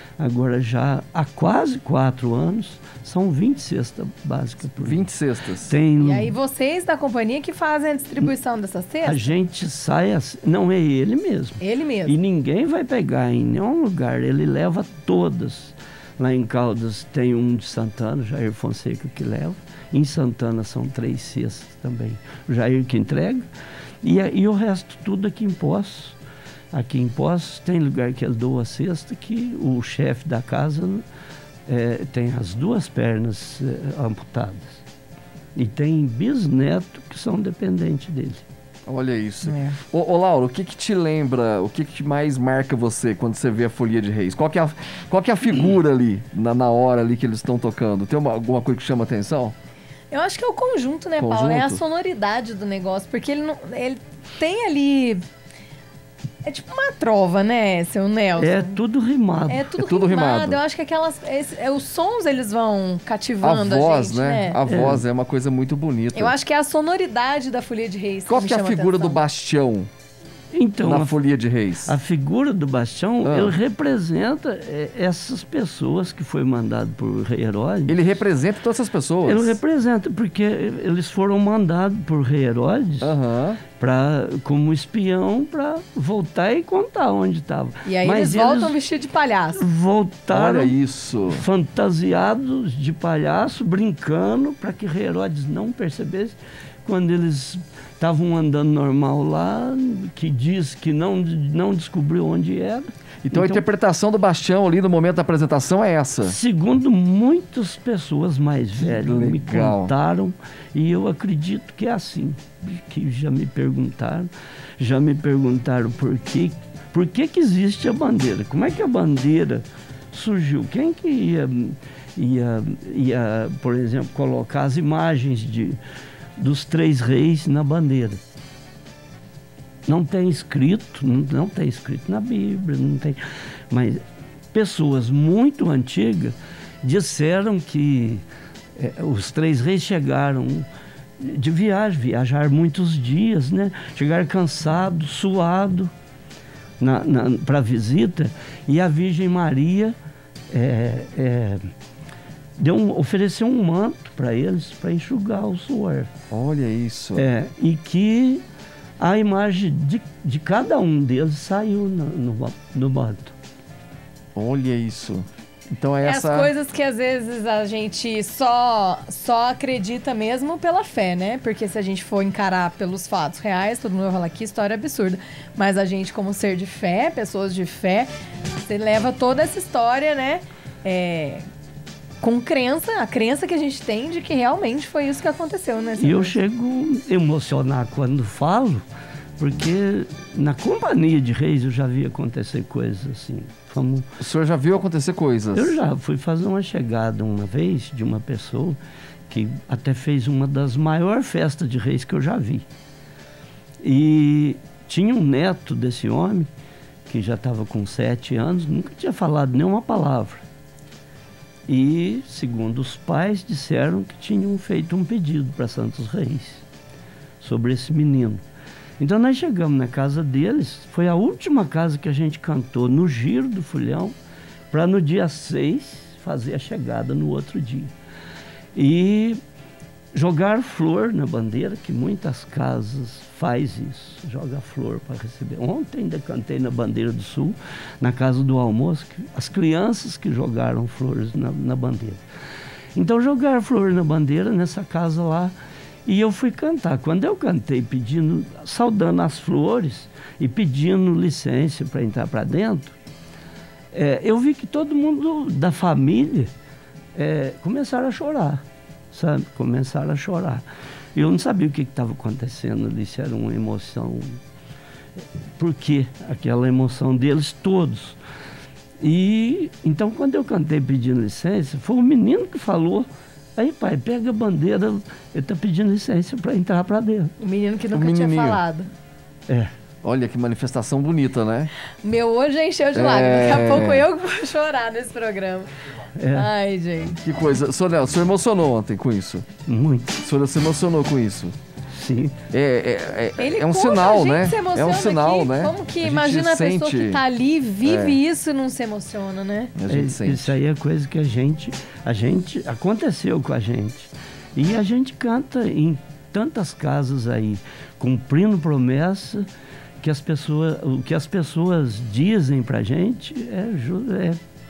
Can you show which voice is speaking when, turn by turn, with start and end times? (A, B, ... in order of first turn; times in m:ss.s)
0:00.2-0:05.1 A
0:04.8-0:05.8 B
0:05.7-0:06.3 A
0:06.0-0:09.4 C
0:09.0-0:23.5 A
0:11.6-0:12.2 C
0:24.0-0:26.2 A
0:26.7-0:31.0 A
0:31.7-0:34.8 A
0:35.6-0:38.4 A
0:38.9-0:49.6 B
0:39.4-0:39.8 C
0:50.1-0:55.2 C
0:51.2-0:51.8 B
0:56.4-0:58.8 C
0:58.4-0:59.7 A
0:59.5-1:04.6 C
0:59.8-1:00.6 B
1:03.4-1:06.3 B
1:04.7-1:05.0 A
1:06.1-1:09.2 C
1:08.3-1:09.9 B
1:10.5-1:11.2 A
1:10.8-1:12.0 B
1:11.8-1:18.0 A
1:13.2-1:13.6 B
1:17.9-1:19.6 B
1:19.2-1:23.1 A
1:23.0-1:23.6 B
1:23.7-1:28.7 A
1:27.8-1:29.6 C
1:29.6-1:30.7 A
1:30.3-1:31.4 B
1:31.3-1:43.6 A
1:43.2-1:46.4 B
1:46.2-2:05.8 A
1:48.8-1:49.9 B
2:06.4-2:08.2 A
2:09.9-2:13.2 A
2:13.7-2:18.2 A
2:18.8-2:20.7 A
2:21.2-2:25.9 A
2:26.8-2:30.0 A
2:30.5-2:31.7 A
2:32.6-2:36.1 A
2:36.3-2:37.3 B
2:37.1-2:38.4 A
2:39.0-2:43.3 A
2:44.4-2:46.5 B
2:46.0-2:58.1 C
2:58.6-3:01.4 C
3:02.2-3:06.4 C
3:06.0-3:08.8 A
3:09.4-3:14.1 A
3:14.2-3:15.8 B
3:15.5-3:18.8 A
3:19.3-3:22.7 A
3:23.8-3:26.5 A
3:27.1-3:30.4 A
3:31.7-3:36.6 A
3:37.4-3:38.4 A
3:39.0-3:44.1 A
3:44.7-3:47.9 A
3:48.7-3:49.4 A
3:50.1-4:02.2 A
4:03.0-4:05.6 A
4:06.0-4:13.0 A
4:13.9-4:16.5 A
4:17.2-4:24.4 A
4:25.6-4:28.2 A
4:29.0-4:37.3 A
4:37.4-4:38.9 C
4:37.9-4:38.6 B
4:40.0-4:41.7 B
4:42.0-4:45.7 C
4:43.0-4:44.1 B
4:46.2-4:46.5 A
4:46.3-4:47.2 C
4:47.2-4:49.5 B
4:49.6-4:50.1 A
4:50.2-4:51.6 B
4:51.9-4:52.4 A
4:52.5-4:57.2 B
4:53.4-4:59.7 C
4:57.8-4:58.2 B
4:59.8-5:00.6 B
4:59.9-5:09.5 A
5:10.0-5:14.4 A